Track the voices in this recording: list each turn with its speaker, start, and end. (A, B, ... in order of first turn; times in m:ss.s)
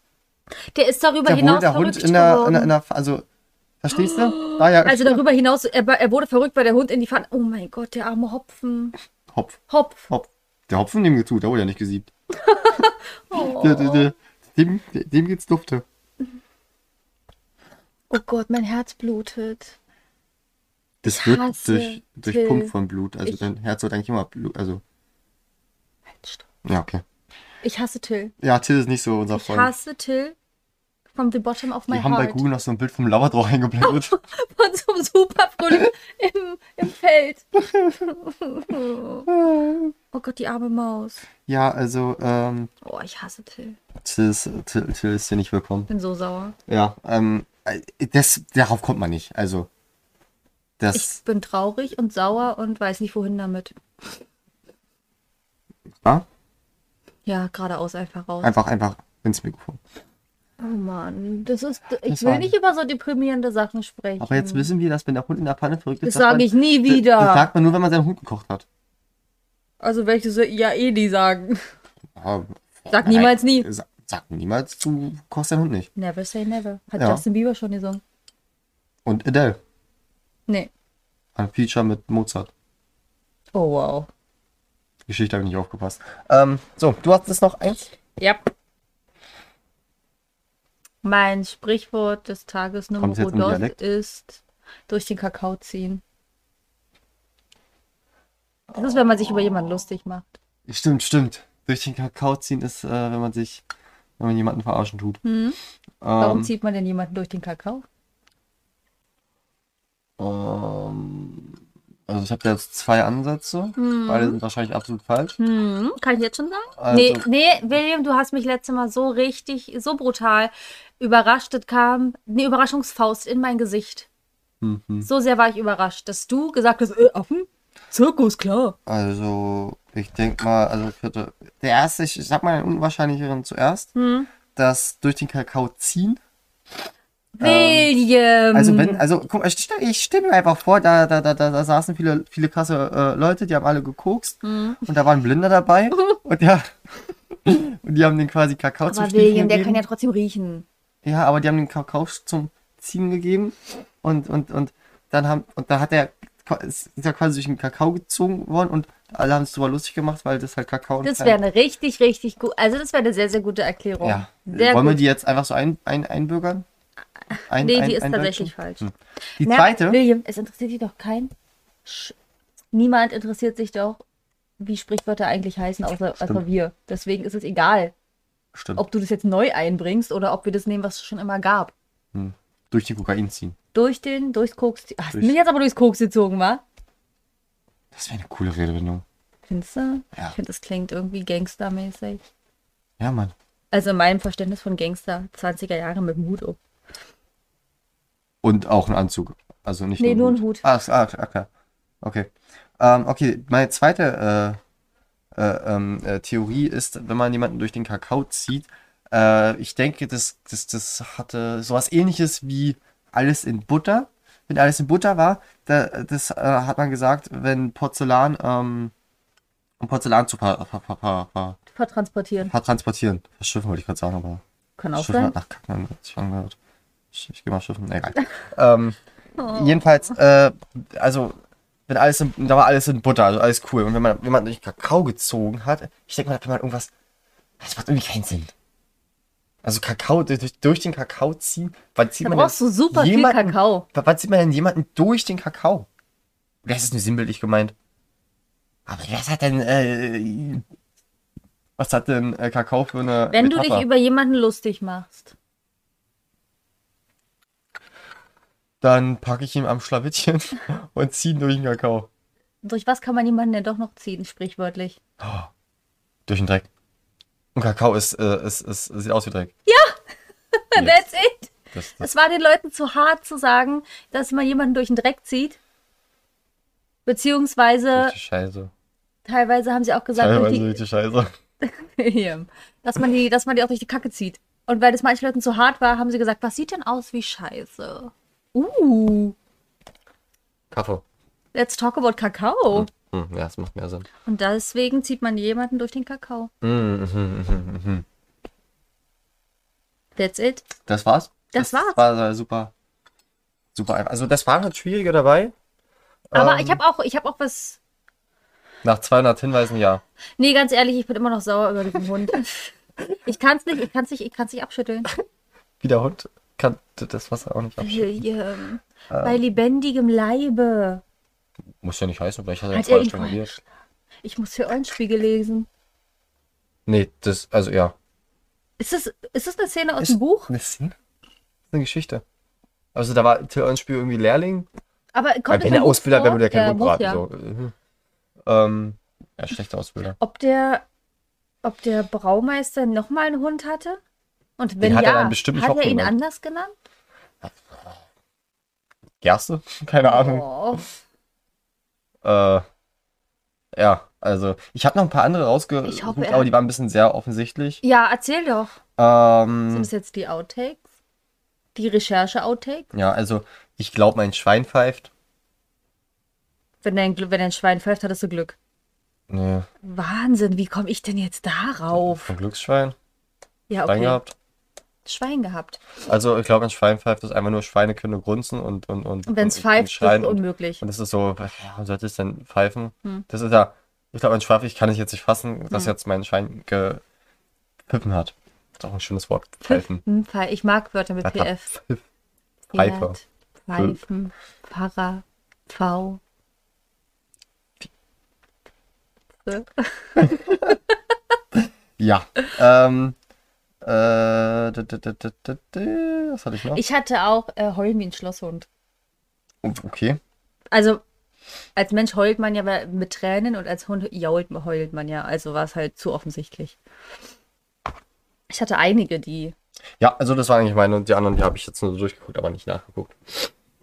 0:00.7-0:02.7 A
0:01.3-0:03.3 B
0:03.8-0:05.2 B
0:03.9-0:08.9 A
0:09.3-0:12.1 B
0:09.7-0:10.1 A
0:12.4-0:14.1 A
0:13.4-0:15.8 B
0:18.1-0:19.8 A
0:21.0-0:24.8 B
0:21.1-0:22.7 A
0:26.2-0:26.4 A
0:26.6-0:27.0 B
0:27.6-0:28.3 A
0:28.4-0:29.7 B
0:29.3-0:30.4 A
0:31.1-0:32.4 A
0:31.9-0:34.2 B
0:33.8-0:39.3 A
0:39.3-0:39.9 B
0:40.1-0:41.2 A
0:41.5-0:42.7 B
0:42.8-0:43.8 A
0:44.0-0:45.9 B
0:45.9-0:46.6 A
0:46.7-0:49.7 B
0:50.8-0:51.1 B
0:50.9-0:53.8 A
0:57.3-0:58.6 A
0:58.4-0:59.8 B
1:00.6-1:04.7 A
1:02.0-1:02.5 B
1:04.2-1:08.6 B
1:06.0-1:07.5 A
1:09.8-1:11.7 A
1:12.2-1:15.9 B
1:12.9-1:13.7 A
1:16.0-1:18.0 A
1:17.0-1:17.2 B
1:19.1-1:19.6 B
1:21.4-1:22.5 B
1:23.6-1:24.1 A
1:25.1-1:27.8 B
1:31.0-1:36.0 A
1:33.0-1:33.8 B
1:38.7-1:40.4 A
1:38.9-1:39.3 B
1:40.7-1:43.6 B
1:44.2-1:45.2 B
1:45.2-1:45.6 A
1:46.0-1:46.5 B
1:46.2-1:47.8 A
1:50.2-1:51.6 B
1:52.1-1:55.4 B
1:53.8-1:54.4 A
1:55.4-2:04.1 A
1:56.8-1:57.3 B
2:04.6-2:05.1 B
2:05.0-2:08.8 A
2:08.9-2:13.9 B
2:14.0-2:14.3 A
2:14.5-2:16.2 B
2:17.4-2:19.0 A
2:17.4-2:17.9 B
2:18.5-2:26.8 B
2:24.4-2:24.8 A
2:27.3-2:29.8 B
2:28.9-2:30.7 A
2:31.0-2:41.4 B
2:41.0-2:45.0 A
2:44.0-2:46.6 B
2:47.4-2:48.9 A
2:47.5-2:50.0 B
2:49.4-2:51.3 A
2:51.8-2:52.2 A
2:52.7-2:54.0 A
2:54.6-2:57.9 A
2:58.5-2:58.8 B
2:58.8-3:01.7 A
3:02.1-3:03.6 B
3:03.7-3:06.6 A
3:07.9-3:09.0 B
3:09.5-3:12.2 A
3:13.0-3:13.3 B
3:13.7-3:16.6 A
3:18.4-3:21.5 B
3:20.0-3:20.6 A
3:22.0-3:24.6 B
3:25.4-3:38.9 B
3:39.8-3:41.6 B
3:41.7-3:42.5 A
3:42.4-3:44.4 B
3:44.8-3:45.4 A
3:45.0-3:46.6 B
3:47.1-3:49.0 B
3:49.4-3:50.2 A
3:49.5-3:51.4 B
3:51.9-3:56.9 B
3:57.6-3:58.5 B
3:59.6-4:05.9 B
4:02.2-4:03.9 A
4:06.6-4:07.7 B
4:08.9-4:10.6 B
4:11.8-4:13.9 B
4:13.3-4:15.3 A
4:18.8-4:22.1 B
4:22.6-4:25.0 A
4:25.2-4:25.5 B
4:26.3-4:26.7 B
4:27.6-4:29.5 B
4:29.7-4:30.0 A
4:30.7-4:35.6 A
4:30.7-4:31.0 B
4:31.7-4:32.1 B
4:37.1-4:38.2 A
4:37.9-4:38.7 B
4:39.2-4:40.8 A
4:40.2-4:41.3 B
4:41.6-4:49.4 A
4:50.7-4:51.0 B
4:51.5-4:52.9 A
4:52.7-4:54.1 B
4:54.2-4:56.5 A
4:56.6-4:58.0 B
5:00.2-5:00.7 A
5:00.9-5:02.7 B
5:01.5-5:02.0 A
5:03.8-5:05.5 B
5:06.3-5:06.8 B
5:06.4-5:07.8 A
5:08.8-5:10.0 B
5:10.4-5:15.1 A
5:15.8-5:18.1 B
5:17.8-5:21.0 A
5:19.1-5:19.4 B
5:21.8-5:23.6 B
5:22.7-5:23.6 A
5:24.2-5:25.7 A
5:26.9-5:28.0 B
5:28.8-5:30.5 A
5:30.0-5:31.0 B
5:31.7-5:32.2 B
5:33.0-5:34.7 B
5:35.1-5:37.2 A
5:35.5-5:37.7 B
5:38.5-5:40.2 B
5:40.2-5:40.8 A
5:41.6-5:44.0 A
5:44.6-5:46.7 A
5:44.8-5:46.2 B
5:47.4-5:48.0 B
5:49.2-5:50.8 B
5:50.0-5:50.9 A
5:52.2-5:52.6 B
5:53.7-5:57.8 B
5:55.9-5:56.5 A
5:57.8-5:58.8 A
5:59.0-5:59.9 B
5:59.7-6:00.8 A
6:01.8-6:02.9 A
6:02.9-6:05.1 B
6:06.8-6:08.6 A
6:09.3-6:09.7 B
6:09.8-6:12.3 A
6:11.9-6:13.0 B
6:13.7-6:14.2 A
6:13.8-6:14.3 B
6:15.0-6:15.8 A
6:16.1-6:27.0 B
6:19.3-6:20.8 A
6:27.9-6:30.0 B
6:29.6-6:31.7 A
6:31.2-6:32.0 B
6:32.7-6:33.2 B
6:32.7-6:36.2 A
6:33.7-6:34.0 B
6:39.4-6:40.8 A
6:40.2-6:40.8 B
6:41.5-6:43.2 B
6:43.8-6:46.8 B
6:46.7-6:48.7 A
6:49.6-6:50.2 B
6:50.7-6:51.0 A
6:51.8-6:56.8 A
6:58.5-6:59.6 A
7:00.0-7:03.5 B